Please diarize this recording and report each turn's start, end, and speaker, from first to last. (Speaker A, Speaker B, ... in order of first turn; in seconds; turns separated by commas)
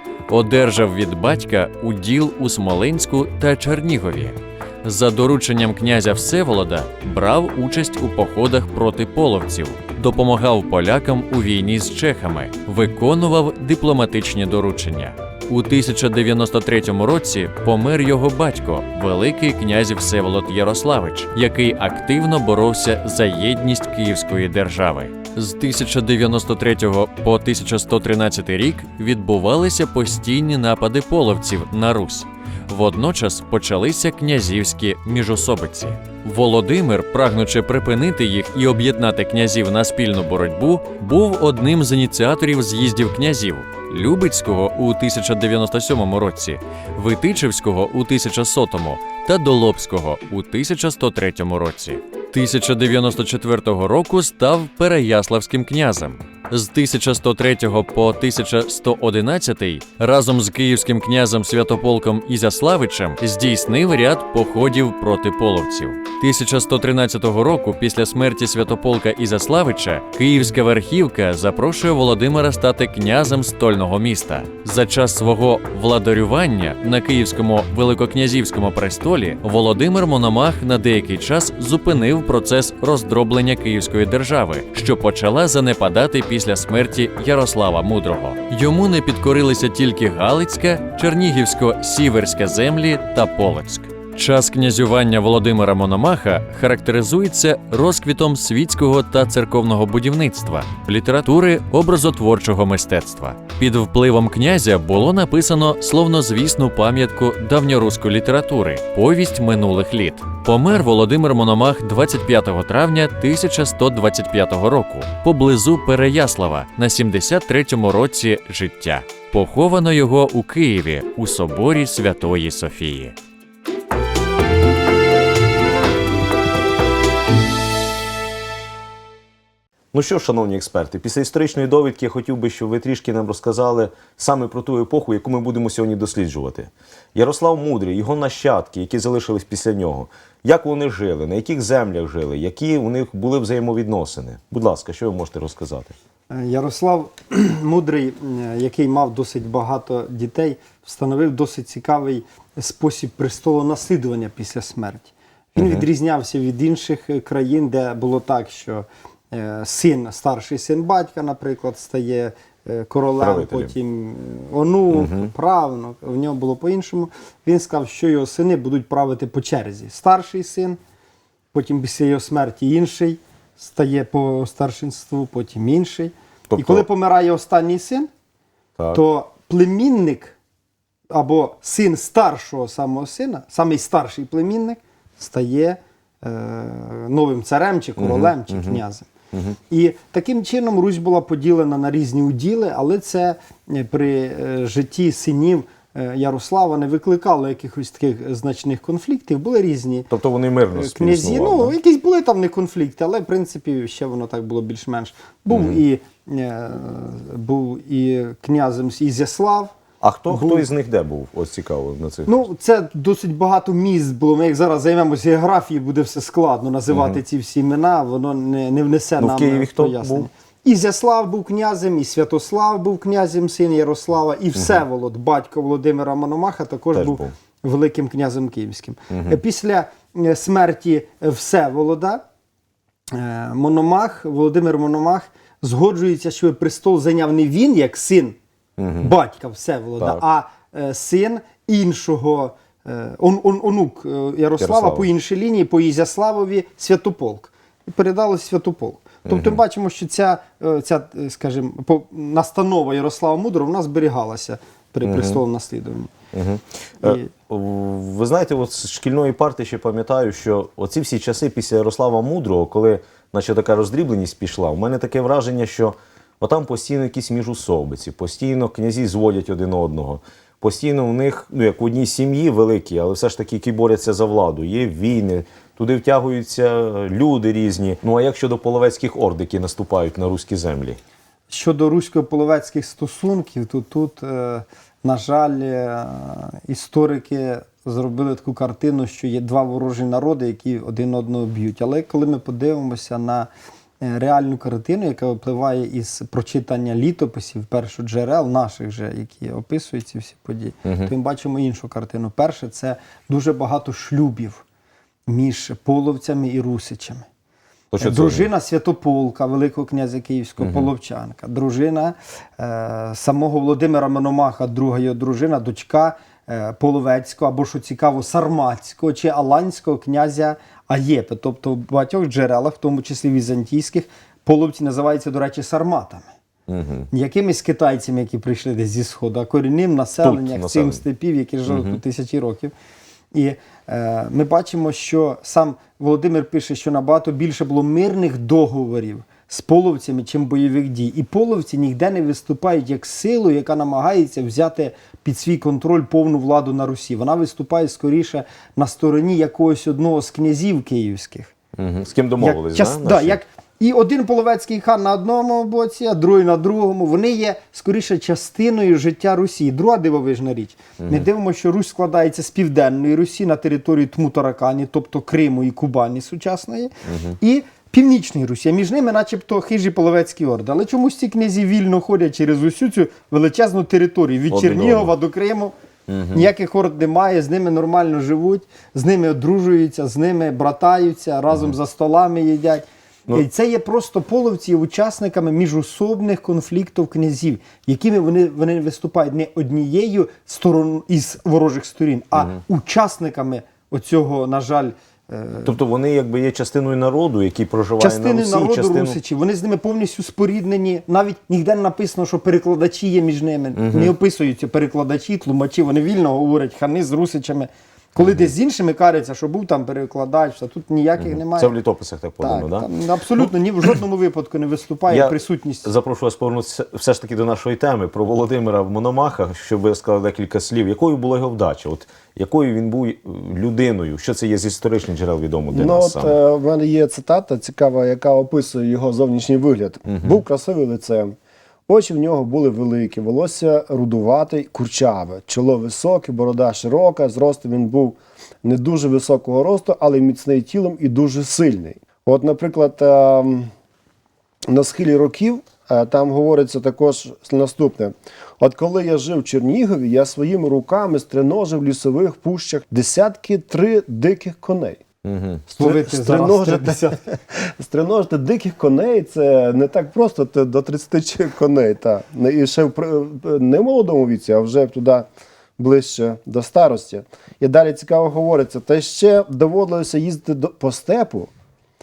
Speaker A: 0.3-123.2, Speaker B: 129.9-145.9, Speaker C: 146.3-170.8, Speaker B: 155.6-155.9, Speaker B: 163.2-163.7, Speaker B: 164.9-165.3, Speaker C: 171.5-178.1, Speaker B: 176.5-176.8, Speaker C: 178.9-180.4, Speaker C: 181.1-189.1, Speaker B: 188.0-188.8, Speaker C: 189.7-200.1, Speaker B: 200.1-201.8, Speaker C: 200.7-209.7, Speaker B: 205.5-205.8, Speaker B: 210.0-212.4, Speaker C: 210.3-210.7, Speaker C: 212.3-232.2, Speaker B: 216.9-217.2, Speaker B: 219.2-220.3, Speaker B: 224.6-224.8, Speaker B: 226.9-227.3, Speaker B: 229.1-229.4, Speaker C: 233.1-238.4, Speaker B: 238.8-239.2, Speaker C: 239.0-256.1, Speaker B: 244.6-245.1, Speaker B: 249.3-249.6, Speaker B: 255.1-255.4, Speaker B: 256.3-281.0, Speaker C: 257.0-257.3, Speaker C: 281.5-293.5, Speaker C: 294.0-304.6, Speaker B: 300.9-301.1, Speaker C: 305.3-307.3, Speaker B: 307.9-308.5, Speaker C: 308.0-326.3, Speaker B: 310.6-310.9, Speaker B: 326.7-327.1, Speaker C: 327.1-332.7, Speaker B: 330.2-331.0, Speaker B: 331.7-332.0, Speaker C: 333.3-351.5, Speaker B: 351.8-353.4, Speaker C: 352.4-375.7, Speaker B: 367.1-367.4, Speaker B: 374.5-375.1, Speaker B: 376.1-376.5, Speaker C: 376.3-395.8, Speaker B: 395.6-399.2, Speaker C: 398.0-411.7, Speaker B: 403.8-404.1, Speaker B: 408.2-408.5, Speaker B: 411.2-412.9, Speaker C: 412.4-415.9, Speaker B: 415.1-426.4, Speaker D: 425.7-431.4, Speaker B: 430.1-430.4, Speaker D: 431.9-443.7, Speaker D: 444.7-455.0, Speaker B: 455.2-455.7, Speaker C: 455.8-457.2, Speaker D: 455.8-471.5